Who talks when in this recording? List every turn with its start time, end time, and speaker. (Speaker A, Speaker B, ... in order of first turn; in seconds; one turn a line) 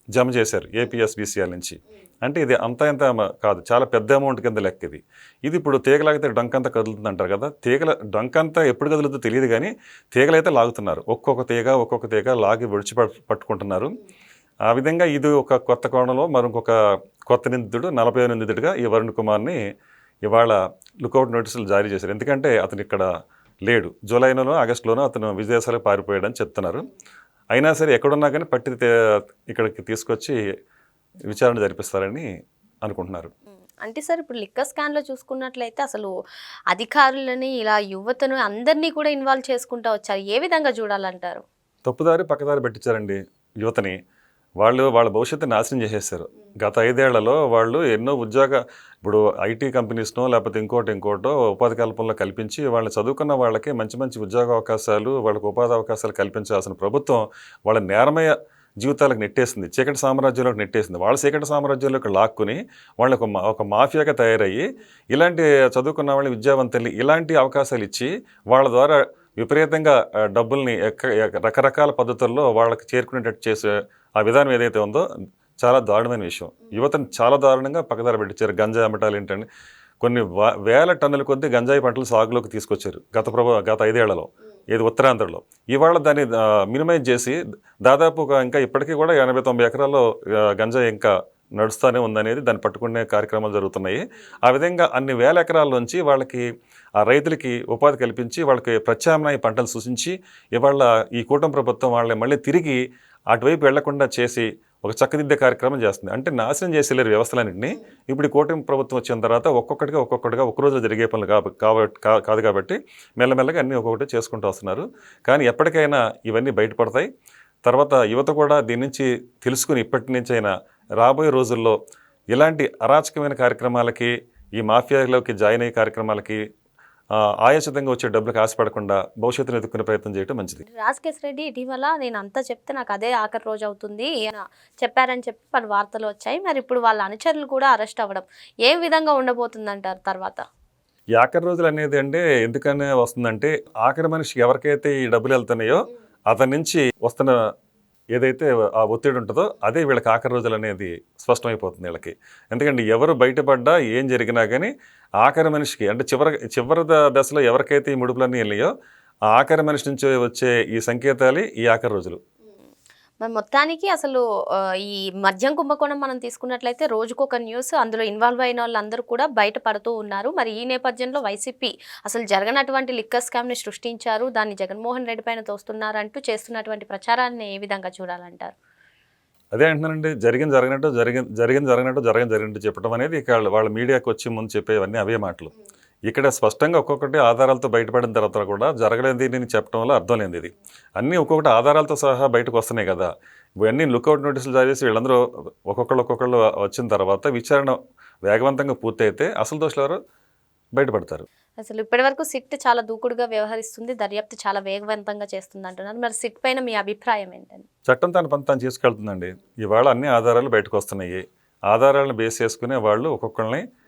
Speaker A: 0.1-14.0
Speaker A: 14.7-16.8
Speaker A: 17.3-19.6
Speaker A: 20.2-23.1
Speaker A: 23.6-26.9
Speaker A: 27.5-30.4
Speaker A: 31.3-32.3
Speaker A: 32.8-33.3
Speaker B: 33.8-36.1
Speaker B: 36.7-41.4
Speaker A: 41.9-44.0
Speaker A: 44.6-75.0
Speaker A: 75.6-79.5
Speaker A: 80.0-96.5
Speaker A: 97.0-117.1
Speaker A: 117.6-121.8
Speaker A: 122.3-126.4
Speaker A: 127.1-130.7
Speaker B: 130.7-140.4
Speaker A: 141.1-147.4
Speaker A: 148.1-158.7
Speaker A: 159.3-162.2
Speaker B: 163.2-178.5
Speaker A: 179.5-185.5
Speaker A: 186.1-193.1
Speaker A: 193.6-200.0
Speaker A: 200.8-201.2
Speaker B: 201.6-207.7
Speaker A: 207.9-213.6